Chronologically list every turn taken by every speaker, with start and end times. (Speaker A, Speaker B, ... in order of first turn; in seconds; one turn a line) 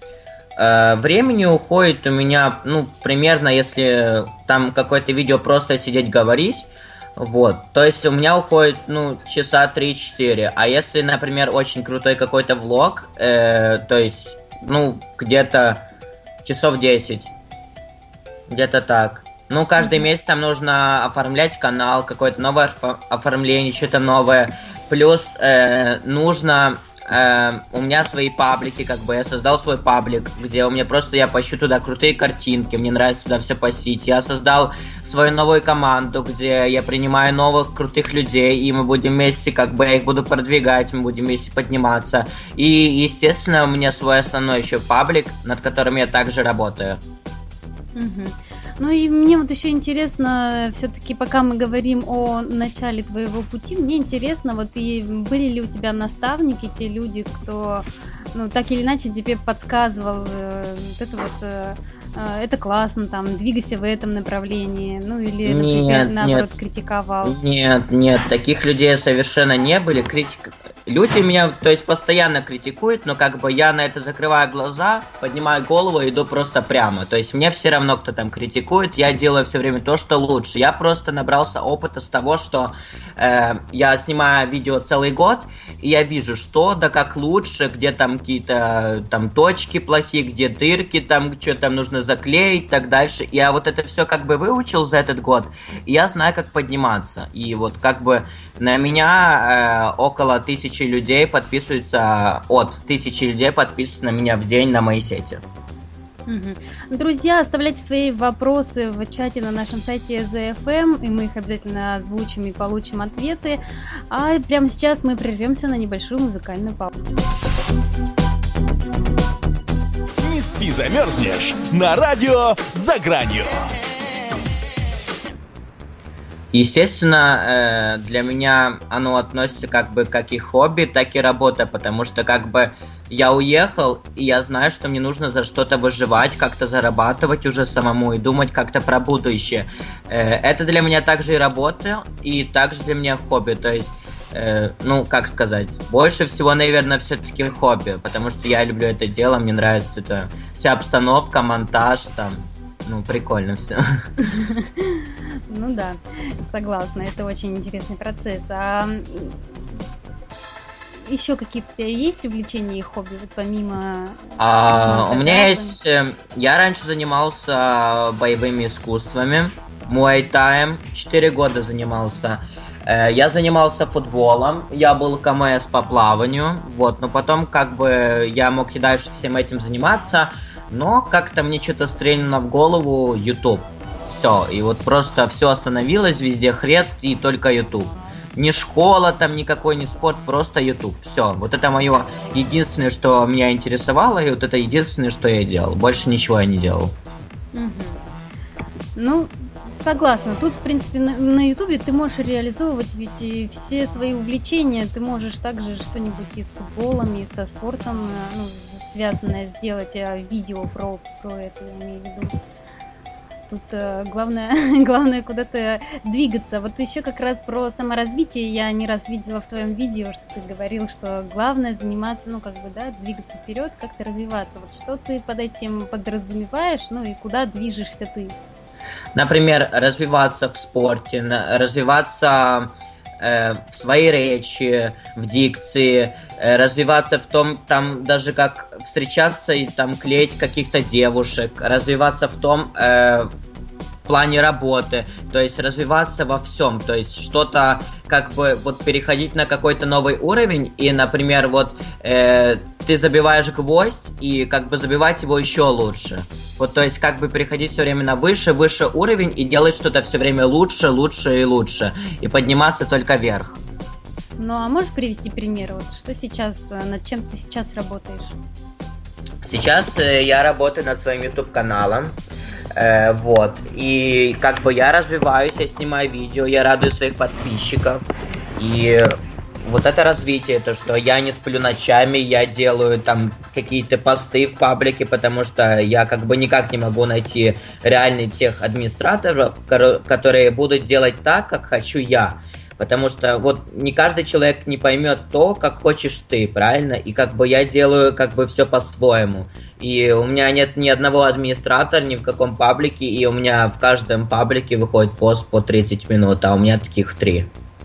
Speaker A: 0.6-15.8
Speaker A: 16.4-17.3
Speaker A: 18.5-47.0
Speaker B: 19.8-20.0
Speaker B: 47.9-67.4
Speaker A: 65.4-66.5
Speaker A: 67.2-105.4
Speaker B: 106.3-116.9
Speaker C: 120.2-123.7
Speaker A: 126.5-153.8
Speaker B: 154.2-159.3
Speaker B: 161.1-165.8
Speaker A: 164.4-196.9
Speaker B: 197.5-198.0
Speaker B: 198.9-212.3
Speaker B: 213.5-228.3
Speaker A: 229.1-243.3
Speaker A: 244.1-263.6
Speaker B: 264.4-268.4
Speaker A: 269.4-272.1
Speaker A: 272.7-279.1
Speaker A: 279.6-307.5